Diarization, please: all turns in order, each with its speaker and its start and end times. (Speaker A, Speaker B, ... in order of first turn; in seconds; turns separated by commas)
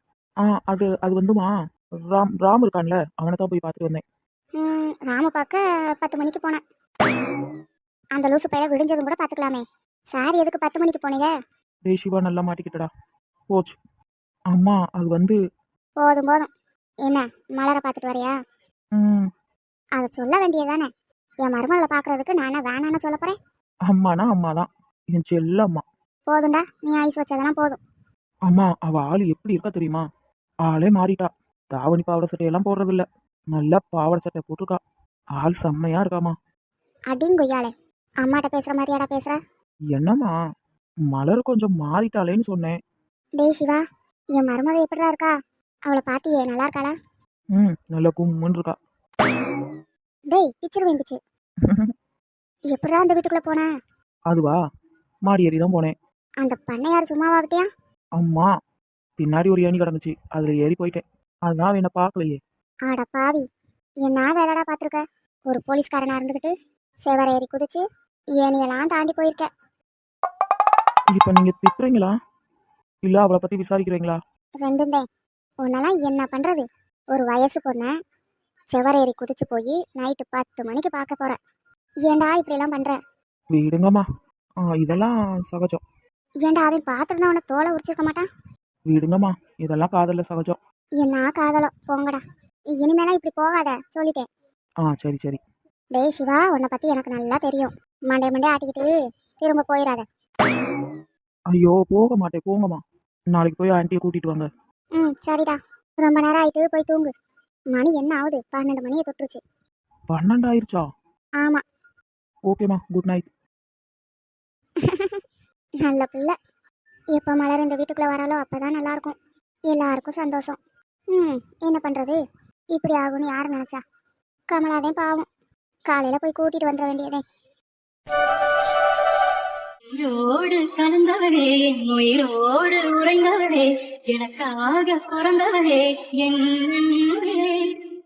Speaker A: 0.4-1.5, Speaker A: 2.1-4.0, Speaker B: 4.6-6.6, Speaker B: 8.1-11.3, Speaker A: 11.8-12.9, Speaker A: 13.5-13.8, Speaker A: 14.5-15.4, Speaker B: 16.0-16.5, Speaker B: 17.1-18.3, Speaker A: 18.9-19.3, Speaker B: 20.0-20.9, Speaker B: 21.4-23.4, Speaker A: 23.8-25.8, Speaker B: 26.3-27.8, Speaker A: 28.4-30.0, Speaker A: 30.6-34.8, Speaker A: 35.4-36.3, Speaker B: 37.1-37.7, Speaker B: 38.2-39.4, Speaker A: 39.9-40.3, Speaker A: 41.1-42.8, Speaker B: 43.4-43.8, Speaker B: 44.3-45.3, Speaker B: 45.9-46.9, Speaker A: 47.5-48.8, Speaker B: 50.3-51.2, Speaker A: 51.6-51.9, Speaker B: 52.7-53.7, Speaker A: 54.3-54.6, Speaker A: 55.2-55.9, Speaker B: 56.4-57.7, Speaker A: 58.1-58.5, Speaker A: 59.2-62.4, Speaker B: 62.9-63.4, Speaker B: 64.0-66.5, Speaker B: 67.0-67.8, Speaker B: 68.4-69.5, Speaker A: 71.1-72.2, Speaker A: 73.0-74.2, Speaker B: 74.6-75.0, Speaker B: 75.6-77.9, Speaker B: 78.7-81.4, Speaker B: 82.0-83.0, Speaker A: 83.5-84.0, Speaker A: 84.6-85.8, Speaker B: 86.4-88.2, Speaker A: 88.9-90.6, Speaker B: 91.0-92.2, Speaker B: 92.8-94.2, Speaker A: 94.8-95.4, Speaker B: 95.9-100.0, Speaker A: 101.5-102.8, Speaker A: 103.3-104.5, Speaker B: 105.0-107.1, Speaker B: 107.7-109.4, Speaker A: 110.1-110.8, Speaker A: 112.5-113.2, Speaker B: 114.8-115.2, Speaker B: 115.8-116.3, Speaker B: 117.1-119.1, Speaker B: 119.7-120.5, Speaker B: 121.1-122.2, Speaker B: 122.7-123.8, Speaker B: 124.5-125.2, Speaker B: 125.9-127.2, Speaker C: 129.9-137.7